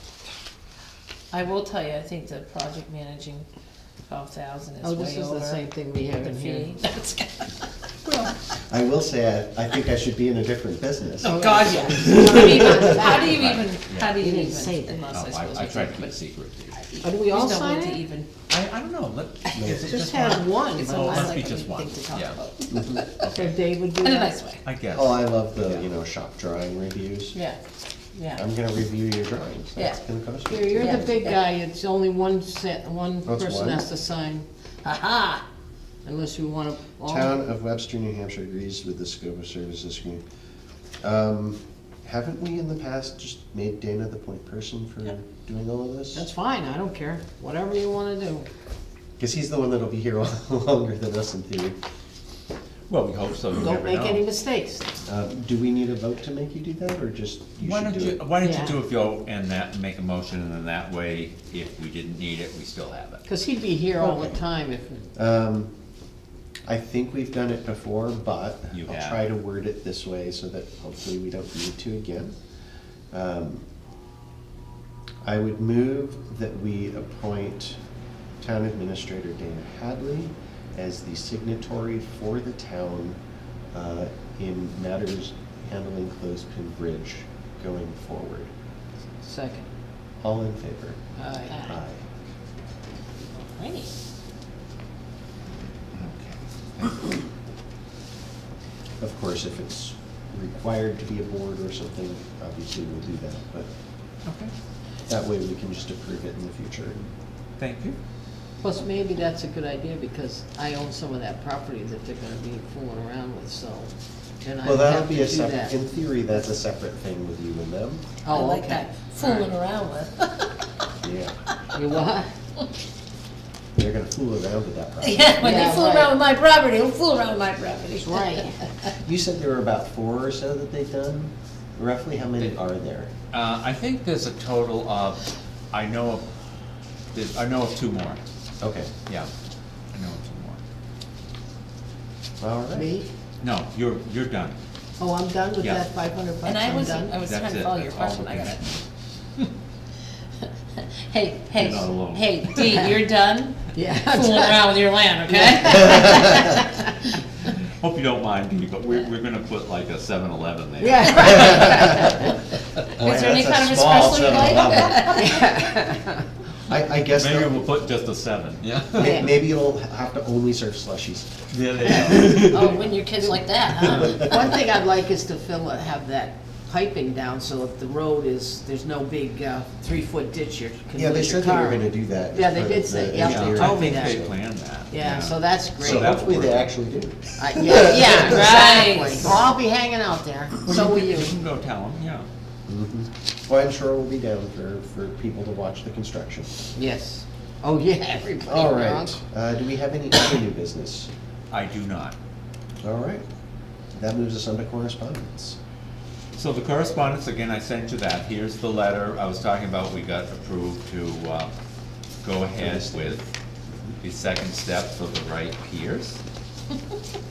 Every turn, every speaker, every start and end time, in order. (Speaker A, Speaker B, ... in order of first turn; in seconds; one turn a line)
Speaker A: 1.3-3.5
Speaker A: 4.1-7.5
Speaker B: 4.8-6.7
Speaker C: 8.1-8.3
Speaker D: 8.7-12.8
Speaker B: 11.2-13.3
Speaker A: 11.2-16.2
Speaker C: 13.1-14.2
Speaker B: 14.2-15.0
Speaker C: 15.1-16.8
Speaker A: 16.8-18.3
Speaker B: 17.0-18.0
Speaker C: 18.5-22.4
Speaker A: 19.5-19.8
Speaker B: 19.6-21.4
Speaker A: 20.8-23.2
Speaker D: 22.7-23.0
Speaker C: 23.1-23.6
Speaker B: 23.2-24.5
Speaker A: 24.0-24.6
Speaker C: 24.6-25.9
Speaker D: 24.9-27.4
Speaker A: 28.1-28.4
Speaker D: 28.4-31.1
Speaker B: 30.5-34.5
Speaker A: 30.8-31.4
Speaker D: 33.2-33.9
Speaker A: 34.8-35.4
Speaker B: 36.0-37.4
Speaker D: 37.1-40.2
Speaker D: 41.0-46.3
Speaker B: 46.1-48.5
Speaker D: 49.2-51.8
Speaker C: 52.9-54.2
Speaker B: 53.6-54.9
Speaker D: 55.0-58.2
Speaker C: 57.6-63.3
Speaker B: 58.4-58.8
Speaker B: 63.3-65.1
Speaker D: 64.0-64.3
Speaker D: 65.2-65.7
Speaker D: 66.7-72.3
Speaker C: 68.7-69.2
Speaker D: 73.1-73.7
Speaker D: 75.2-77.8
Speaker D: 78.4-83.2
Speaker D: 83.7-88.5
Speaker B: 89.2-89.7
Speaker D: 90.2-91.0
Speaker B: 91.2-91.6
Speaker A: 91.5-91.8
Speaker D: 91.6-92.0
Speaker A: 93.4-93.9
Speaker C: 95.9-97.2
Speaker D: 99.0-103.7
Speaker C: 104.3-104.5
Speaker D: 105.1-107.0
Speaker C: 107.6-108.0
Speaker B: 108.6-115.7
Speaker D: 114.6-118.1
Speaker B: 118.2-118.9
Speaker A: 118.3-120.7
Speaker D: 121.0-121.4
Speaker B: 121.7-122.3
Speaker D: 123.8-125.4
Speaker A: 125.0-128.5
Speaker B: 125.4-126.1
Speaker B: 128.0-128.6
Speaker D: 129.0-133.1
Speaker C: 133.3-136.3
Speaker C: 137.1-138.2
Speaker D: 138.6-138.9
Speaker C: 139.9-140.6
Speaker D: 142.4-143.0
Speaker B: 142.8-143.1
Speaker C: 143.4-144.6
Speaker B: 145.0-147.1
Speaker C: 145.6-145.9
Speaker A: 146.4-148.6
Speaker C: 147.2-148.8
Speaker A: 150.8-156.6
Speaker C: 151.6-152.6
Speaker B: 153.7-154.7
Speaker B: 155.3-156.8
Speaker C: 157.4-162.2
Speaker B: 160.8-161.8
Speaker A: 161.4-162.2
Speaker D: 161.5-162.1
Speaker A: 162.9-165.4
Speaker D: 162.9-165.5
Speaker B: 165.2-166.2
Speaker D: 166.7-167.7
Speaker C: 167.1-169.4
Speaker D: 168.9-172.9
Speaker B: 169.0-169.2
Speaker C: 171.5-172.7
Speaker A: 172.3-174.4
Speaker B: 173.2-184.2
Speaker D: 173.9-174.2
Speaker D: 180.9-184.3
Speaker C: 183.2-186.7
Speaker B: 184.9-186.2
Speaker D: 185.8-188.1
Speaker B: 187.4-191.3
Speaker A: 187.8-189.4
Speaker C: 190.7-192.3
Speaker D: 192.7-196.5
Speaker B: 196.7-199.2
Speaker D: 198.4-201.1
Speaker C: 201.5-202.2
Speaker D: 202.8-203.2
Speaker D: 203.9-205.6
Speaker C: 206.4-211.5
Speaker C: 212.2-213.4
Speaker D: 212.6-213.2
Speaker C: 214.0-216.2